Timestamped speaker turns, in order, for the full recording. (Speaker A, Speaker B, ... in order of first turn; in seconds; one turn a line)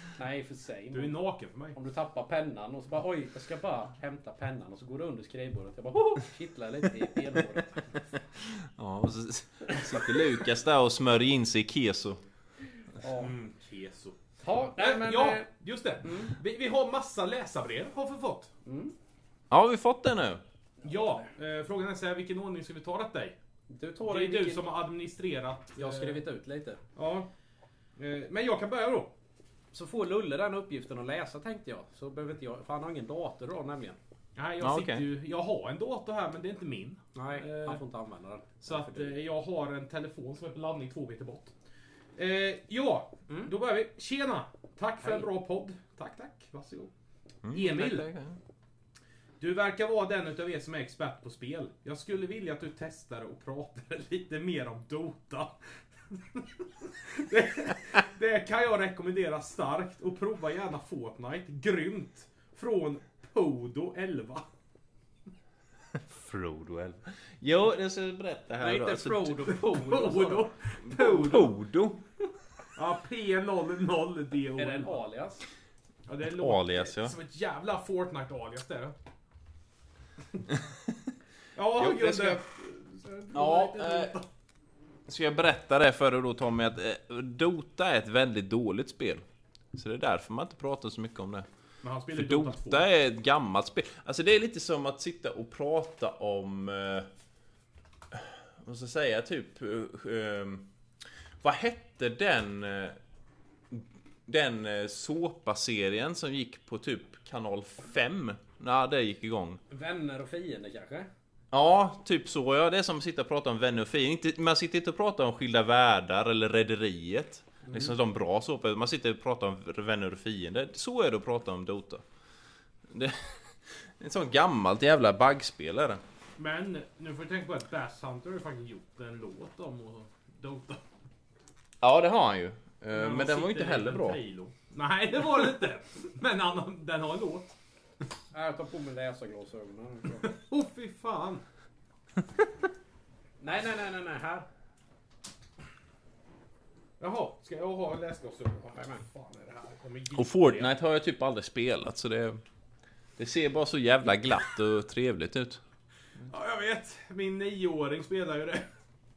Speaker A: 0.1-1.2
Speaker B: 0.9-1.8
Speaker A: 1.7-7.9
Speaker C: 8.2-12.2
Speaker A: 13.0-13.3
Speaker B: 13.0-18.5
Speaker A: 14.4-15.5
Speaker A: 16.0-16.3
Speaker A: 18.6-18.9
Speaker C: 19.5-20.4
Speaker B: 20.8-23.4
Speaker A: 23.7-24.6
Speaker B: 24.1-26.2
Speaker A: 25.8-26.8
Speaker B: 26.9-27.3
Speaker B: 28.0-29.1
Speaker A: 29.7-34.0
Speaker B: 34.4-37.8
Speaker C: 34.6-35.0
Speaker A: 37.1-39.1
Speaker B: 38.6-41.5
Speaker B: 42.1-46.9
Speaker A: 45.0-45.3
Speaker C: 47.4-48.4
Speaker B: 47.5-48.0
Speaker B: 49.4-55.5
Speaker B: 56.1-64.5
Speaker C: 65.9-69.3
Speaker A: 68.6-70.5
Speaker B: 69.5-71.5
Speaker C: 70.9-72.0
Speaker B: 72.7-75.0
Speaker A: 74.6-75.4
Speaker B: 76.1-78.9
Speaker C: 76.2-77.1
Speaker C: 80.5-80.9
Speaker B: 81.5-84.2
Speaker C: 81.8-82.4
Speaker C: 83.3-84.2
Speaker C: 85.1-89.2
Speaker C: 89.7-91.5
Speaker B: 91.8-92.8
Speaker C: 92.1-97.1
Speaker C: 98.1-100.7
Speaker C: 101.4-103.0
Speaker C: 103.7-109.6
Speaker A: 109.7-111.1
Speaker C: 111.5-122.0
Speaker A: 117.7-117.9
Speaker C: 122.9-126.0
Speaker B: 126.4-130.8
Speaker C: 131.8-134.2
Speaker B: 132.9-137.5
Speaker A: 138.3-140.3
Speaker B: 140.2-141.4
Speaker A: 143.4-144.5
Speaker B: 147.0-150.7
Speaker A: 148.8-149.0
Speaker C: 150.1-152.4
Speaker C: 153.2-155.6
Speaker B: 156.3-158.7